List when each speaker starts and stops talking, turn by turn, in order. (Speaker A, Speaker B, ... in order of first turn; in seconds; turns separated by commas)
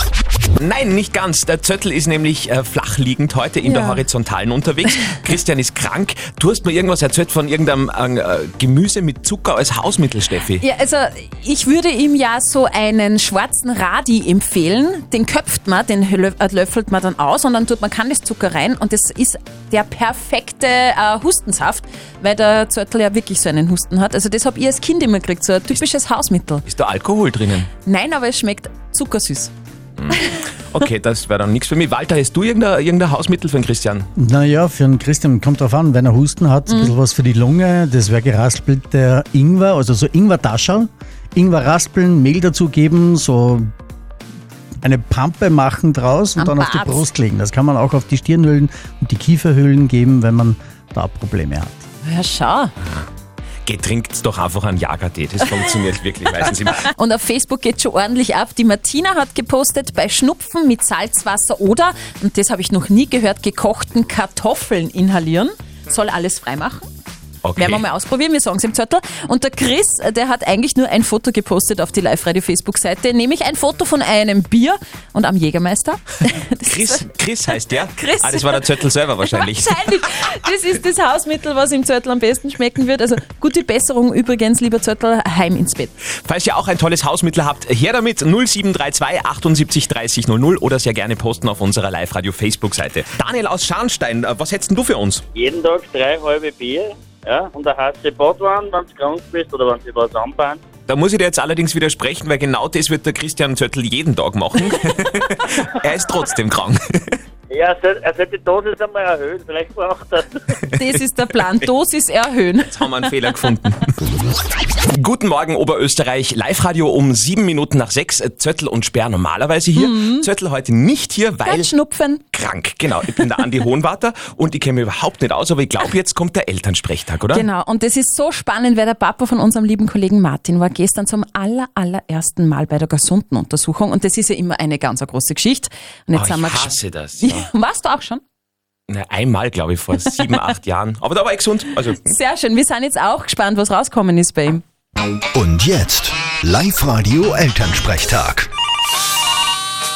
Speaker A: 0.6-10.6, Speaker B: 3.6-4.0, Speaker B: 10.6-26.6, Speaker A: 26.6-27.7, Speaker B: 27.9-29.5, Speaker A: 30.0-34.1, Speaker C: 34.1-43.7, Speaker B: 36.7-36.9, Speaker C: 44.8-51.8, Speaker B: 46.4-47.1, Speaker B: 52.0-52.7, Speaker A: 53.6-56.9, Speaker B: 56.8-66.9, Speaker A: 67.4-67.8, Speaker B: 67.5-77.1, Speaker A: 76.7-79.8, Speaker B: 77.9-85.9, Speaker A: 86.2-95.2, Speaker D: 95.4-96.8, Speaker D: 97.3-100.5, Speaker A: 100.9-107.2, Speaker D: 107.5-110.1, Speaker B: 110.7-113.1, Speaker A: 112.7-113.9, Speaker A: 114.9-121.7, Speaker B: 119.7-120.2, Speaker B: 121.4-122.2, Speaker A: 122.3-127.4, Speaker B: 127.3-138.2, Speaker A: 136.1-137.4, Speaker A: 138.9-142.1, Speaker B: 142.0-144.6, Speaker E: 145.3-148.5